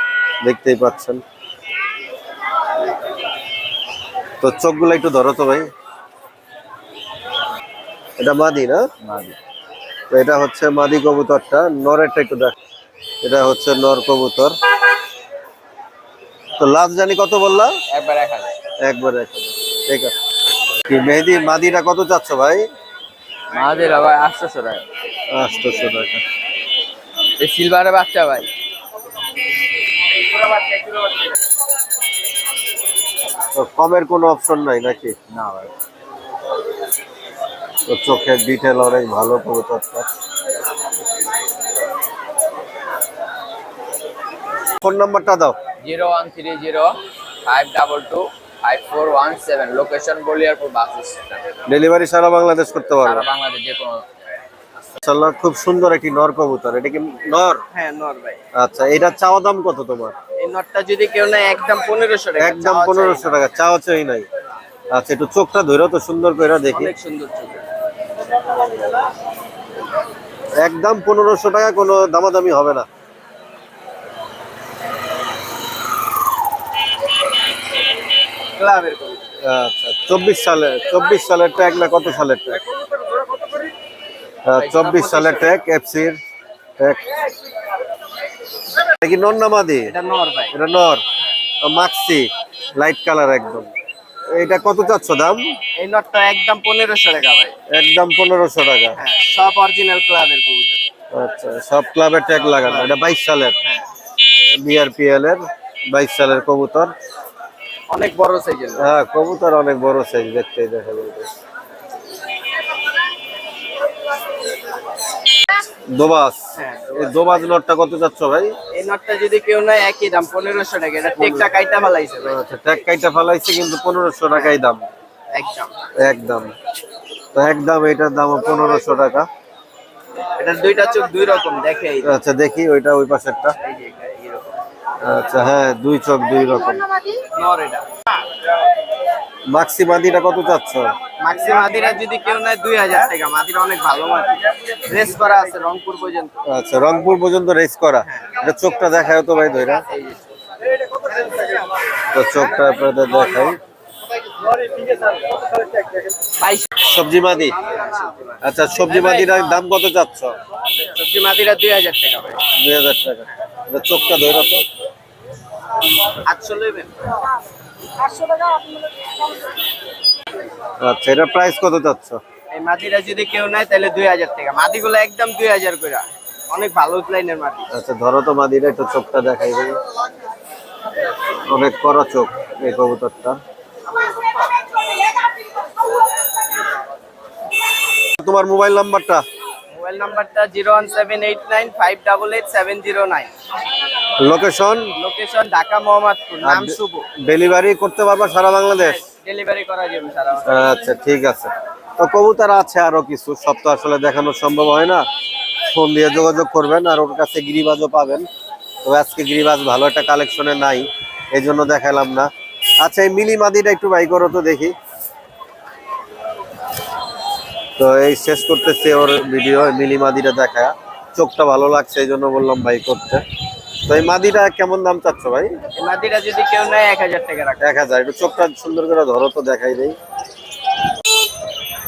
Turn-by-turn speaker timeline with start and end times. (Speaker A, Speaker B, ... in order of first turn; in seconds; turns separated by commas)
Speaker A: 0.4-1.2, Speaker A: 4.4-5.7, Speaker A: 8.2-8.8, Speaker B: 9.0-9.4, Speaker A: 10.1-12.5, Speaker A: 13.2-14.5, Speaker A: 16.6-17.7, Speaker B: 17.9-18.5, Speaker A: 18.8-20.1, Speaker A: 20.9-22.6, Speaker B: 23.5-24.8, Speaker A: 25.3-26.2, Speaker B: 27.4-28.5, Speaker A: 33.5-35.1, Speaker B: 35.3-35.7, Speaker A: 37.9-40.1, Speaker A: 44.8-45.6, Speaker B: 45.8-46.9, Speaker B: 47.4-51.4, Speaker A: 51.7-53.3, Speaker B: 53.0-54.0, Speaker A: 55.0-57.6, Speaker C: 57.7-58.4, Speaker A: 58.5-60.1, Speaker C: 60.4-63.6, Speaker A: 62.4-64.3, Speaker A: 64.9-66.9, Speaker C: 66.7-67.6, Speaker A: 70.6-72.8, Speaker C: 78.5-79.3, Speaker A: 79.4-82.6, Speaker A: 84.5-86.2, Speaker C: 84.9-85.6, Speaker A: 86.8-87.2, Speaker A: 89.0-89.9, Speaker C: 89.8-90.5, Speaker A: 90.5-91.0, Speaker A: 91.6-93.7, Speaker A: 94.3-95.5, Speaker C: 95.8-97.5, Speaker A: 97.7-99.0, Speaker C: 98.9-100.8, Speaker A: 101.1-103.5, Speaker C: 102.3-102.9, Speaker A: 104.6-106.9, Speaker C: 107.9-108.9, Speaker A: 108.8-111.3, Speaker A: 115.9-116.4, Speaker C: 116.5-117.1, Speaker A: 116.9-118.5, Speaker C: 118.7-122.3, Speaker A: 121.2-121.5, Speaker A: 122.2-124.8, Speaker C: 124.3-124.6, Speaker C: 125.3-125.7, Speaker A: 126.0-126.5, Speaker A: 127.3-129.3, Speaker C: 130.4-132.2, Speaker A: 132.0-133.5, Speaker C: 133.6-134.6, Speaker A: 135.0-136.9, Speaker C: 137.3-137.9, Speaker A: 139.5-140.9, Speaker C: 141.2-146.3, Speaker A: 146.5-149.8, Speaker C: 149.9-150.2, Speaker A: 152.1-153.6, Speaker C: 156.3-156.8, Speaker A: 156.8-157.6, Speaker C: 157.6-159.6, Speaker A: 158.4-160.3, Speaker C: 160.8-162.4, Speaker A: 162.6-164.6, Speaker C: 166.2-166.9, Speaker A: 170.8-172.2, Speaker C: 172.5-177.7, Speaker A: 177.7-179.8, Speaker A: 181.5-183.4, Speaker A: 188.2-189.2, Speaker C: 189.7-193.3, Speaker A: 194.2-194.9, Speaker C: 194.9-197.1, Speaker A: 196.4-199.0, Speaker C: 198.7-200.5, Speaker A: 200.5-205.0, Speaker A: 205.7-208.3, Speaker A: 208.8-212.3, Speaker A: 212.8-214.7, Speaker A: 217.8-223.2, Speaker A: 223.9-225.5, Speaker C: 225.8-227.9, Speaker A: 227.6-230.0